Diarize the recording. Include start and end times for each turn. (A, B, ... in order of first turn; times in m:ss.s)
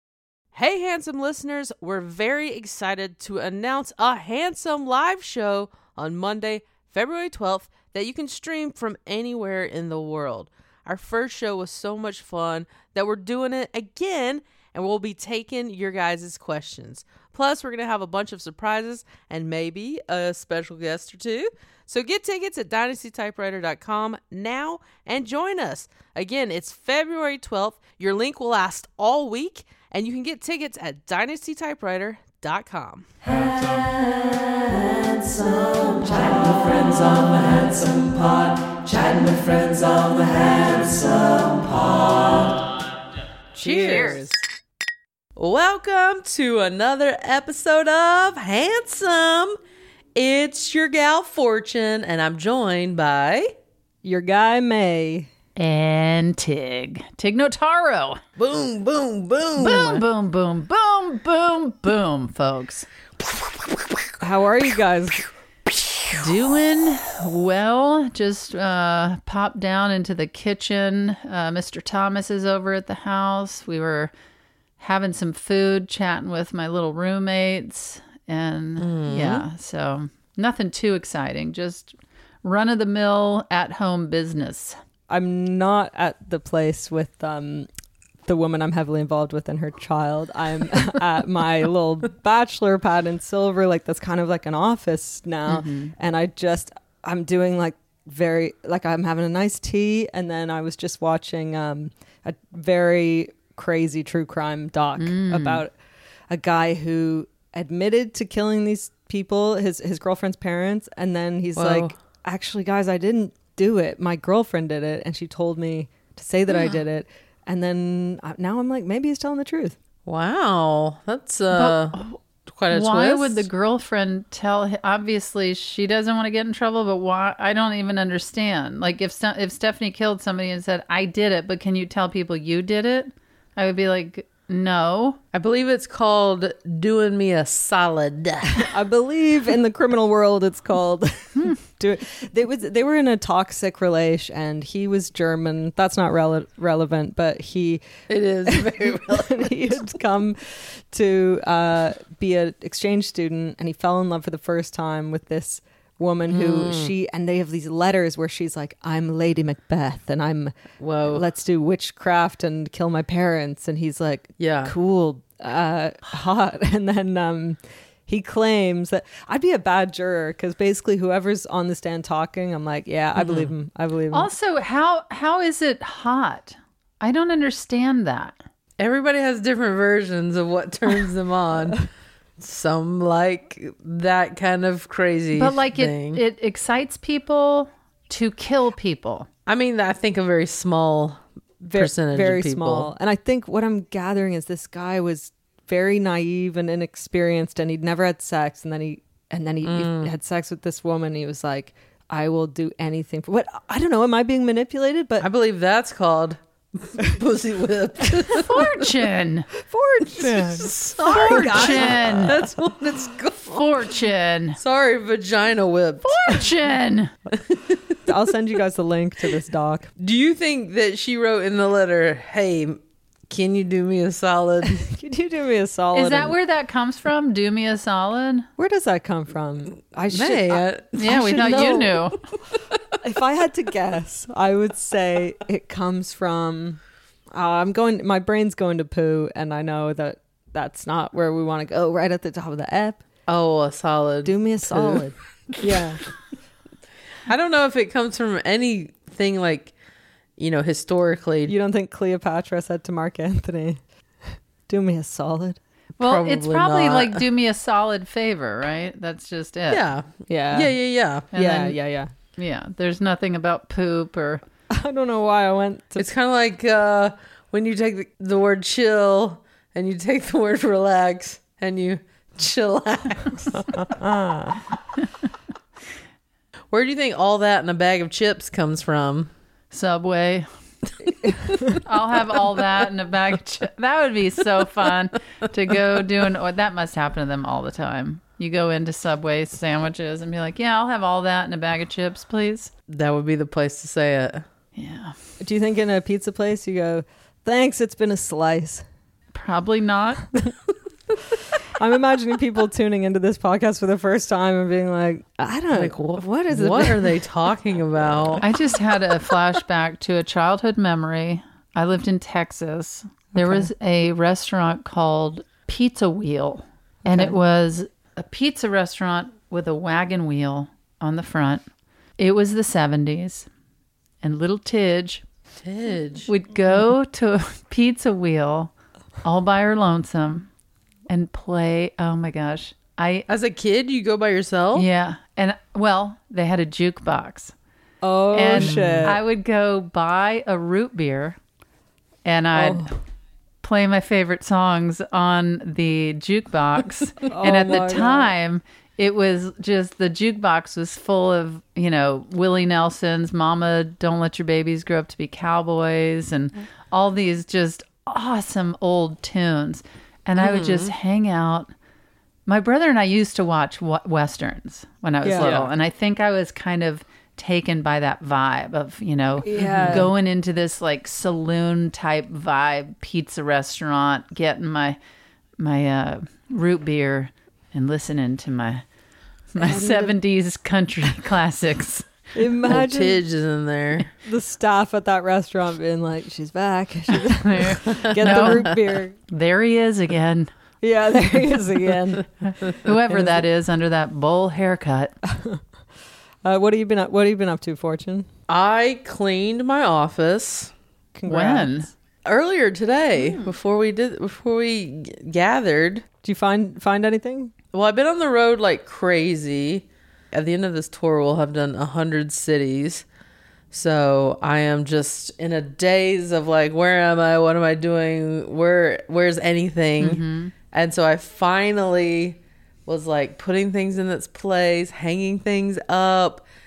0:00.5-0:33.1 A
0:33.2-0:42.6 B
0:43.5-0:44.4 B
0:43.6-0:44.3 A
0:45.4-0:49.6 A
0:50.2-0:53.5 A
0:54.0-0:55.3 B
0:55.6-0:58.2 C
0:58.4-1:00.0 A
0:59.6-1:02.9 C
1:03.4-1:04.0 A
1:04.2-1:05.3 B
1:06.1-1:14.1 C
1:14.8-1:24.8 C
1:18.8-1:19.5 A
1:25.1-1:27.7 B
1:28.2-1:45.7 B
1:35.5-1:35.9 C
1:45.0-1:45.6 C
1:46.3-1:59.8 B
1:51.6-1:51.9 A
2:00.1-2:03.5 A
2:01.5-2:02.2 C
2:02.7-2:15.2 C
2:15.3-2:18.7 A
2:18.6-2:27.9 B
2:28.1-2:29.8 A
2:28.4-2:54.3 B
2:36.3-2:36.9 A
2:40.8-2:41.2 A
2:44.4-2:44.7 A
2:54.1-2:58.4 C
2:58.8-3:01.9 A
3:02.4-3:06.2 A
3:05.3-3:09.3 C
3:09.5-3:11.2 A
3:11.6-3:25.3 B
3:11.7-3:12.9 A
3:19.6-3:20.1 A
3:25.2-3:28.7 A
3:28.4-3:29.5 C
3:29.6-3:32.5 B
3:30.1-3:33.9 A
3:31.1-3:32.3 C
3:33.5-3:34.6 C
3:34.6-3:36.4 A
3:36.0-3:37.1 C
3:37.4-3:38.0 A
3:38.1-3:39.9 B
3:40.0-3:44.9 A
3:44.8-3:46.4 B
3:45.9-3:48.5 C
3:48.6-3:52.0 B
3:50.1-3:52.0 A
3:51.0-3:52.2 C
3:53.0-3:56.8 B
3:57.3-4:03.0 B
4:03.3-4:05.1 A
4:04.2-4:06.0 B
4:07.3-4:09.7 A
4:10.4-4:11.5 A
4:11.5-4:13.8 B
4:14.7-4:15.6 B
4:16.0-4:17.2 A
4:16.0-4:19.8 C
4:19.7-4:21.3 A
4:20.3-4:20.8 B
4:21.3-4:22.1 B
4:21.3-4:21.8 C
4:22.4-4:24.4 C
4:24.7-4:26.1 B
4:26.0-4:33.9 A
4:33.7-4:34.6 B
4:36.7-4:39.3 A
4:39.7-4:40.5 C
4:41.8-4:52.7 C
4:52.9-4:54.4 A
4:54.8-4:55.1 C
4:55.4-4:58.8 B
4:59.3-5:00.3 C
5:01.7-5:07.2 B
5:05.7-5:08.4 A
5:08.4-5:21.6 C
5:13.3-5:13.7 B
5:17.0-5:17.3 B
5:22.2-5:23.5 C
5:24.2-5:25.2 C
5:25.6-5:26.3 A
5:26.3-5:28.7 C
5:29.2-5:30.5 C
5:31.1-5:33.3 C
5:33.3-5:34.9 A
5:34.7-5:37.6 C
5:38.0-5:39.2 B
5:38.3-5:41.4 C
5:38.6-5:39.2 A
5:42.2-5:42.9 C
5:42.5-5:42.9 B
5:43.6-6:01.7 C
5:47.3-5:48.3 B
6:00.4-6:00.9 A
6:02.5-6:15.0 C
6:05.2-6:05.5 B
6:05.4-6:05.7 A
6:09.4-6:10.1 B
6:09.6-6:10.1 A
6:15.6-6:18.8 C
6:19.5-6:22.1 C
6:19.6-6:20.2 B
6:22.4-6:23.2 B
6:22.7-6:24.1 A
6:24.2-6:29.1 B
6:27.2-6:28.7 C
6:27.8-6:28.8 A
6:29.3-6:30.5 C
6:30.8-6:32.3 B
6:32.5-6:35.1 C
6:32.7-6:32.9 A
6:35.3-6:35.6 B
6:36.4-6:38.3 B
6:38.5-6:40.7 A
6:41.2-6:41.9 B
6:41.3-6:41.9 C
6:42.2-6:46.1 A
6:43.2-6:43.6 C
6:46.2-6:47.5 B
6:47.7-6:53.0 A
6:53.7-7:06.4 A
7:00.0-7:00.5 C